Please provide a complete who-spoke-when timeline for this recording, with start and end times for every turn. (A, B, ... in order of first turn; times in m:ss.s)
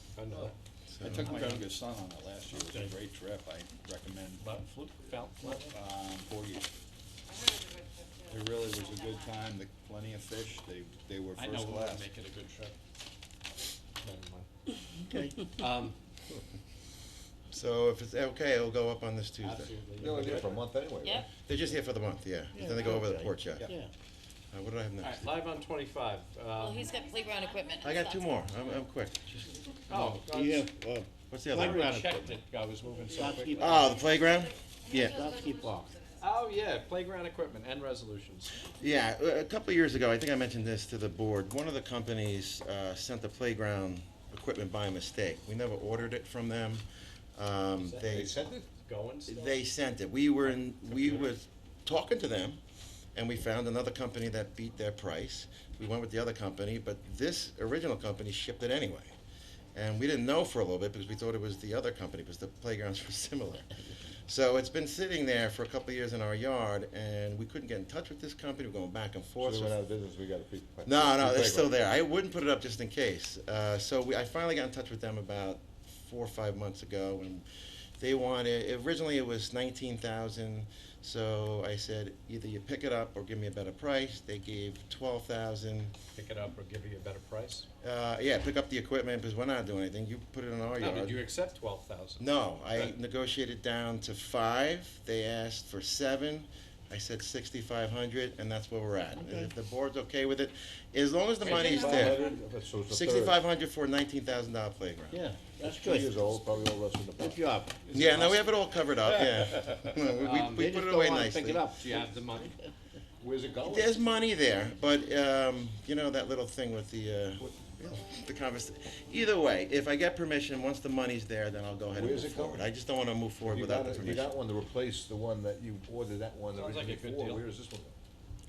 0:00.2-0:00.5 A
0:00.9-0:01.4 B
0:01.0-0:04.5 C
0:04.4-0:05.8 A
0:05.5-0:06.7 C
0:07.3-0:09.4 D
0:08.3-0:12.1 C
0:11.3-0:12.8 A
0:14.0-0:14.5 A
0:15.1-0:15.4 E
0:15.6-0:16.0 A
0:17.5-0:19.7 B
0:19.4-0:20.6 A
0:20.0-0:21.3 F
0:21.0-0:21.3 D
0:21.4-0:23.7 B
0:22.5-0:23.9 E
0:24.5-0:25.3 B
0:25.0-0:27.0 A
0:26.5-0:28.8 D
0:27.8-0:29.4 B
0:29.9-0:30.6 A
0:29.9-0:32.4 E
0:31.3-0:31.9 B
0:31.5-0:33.9 A
0:33.1-0:34.0 E
0:33.6-0:35.3 B
0:33.9-0:35.8 D
0:35.0-0:36.0 E
0:36.2-0:38.6 A
0:38.8-0:46.8 B
0:47.4-0:48.3 B
0:47.8-0:49.5 A
0:48.1-0:48.6 F
0:49.3-0:52.6 B
0:50.5-0:51.3 A
0:53.1-0:59.1 B
0:59.7-1:03.7 B
1:04.2-1:09.8 B
1:09.4-1:11.7 F
1:10.9-1:17.4 B
1:18.0-1:25.9 B
1:26.2-1:27.7 A
1:27.8-1:31.2 B
1:30.8-1:32.9 A
1:32.2-1:42.2 B
1:39.2-1:39.5 E
1:41.4-1:43.4 F
1:41.5-1:42.3 D
1:42.9-1:45.2 B
1:45.1-1:46.3 E
1:45.6-1:47.4 F
1:47.2-1:47.8 E
1:47.9-1:51.7 B
1:48.0-1:48.2 C
1:50.2-1:50.7 A
1:50.5-1:52.0 E
1:51.8-1:52.6 A
1:53.2-1:54.0 F
1:53.7-2:04.3 B
2:01.9-2:02.7 F
2:03.4-2:08.0 F
2:06.5-2:07.4 A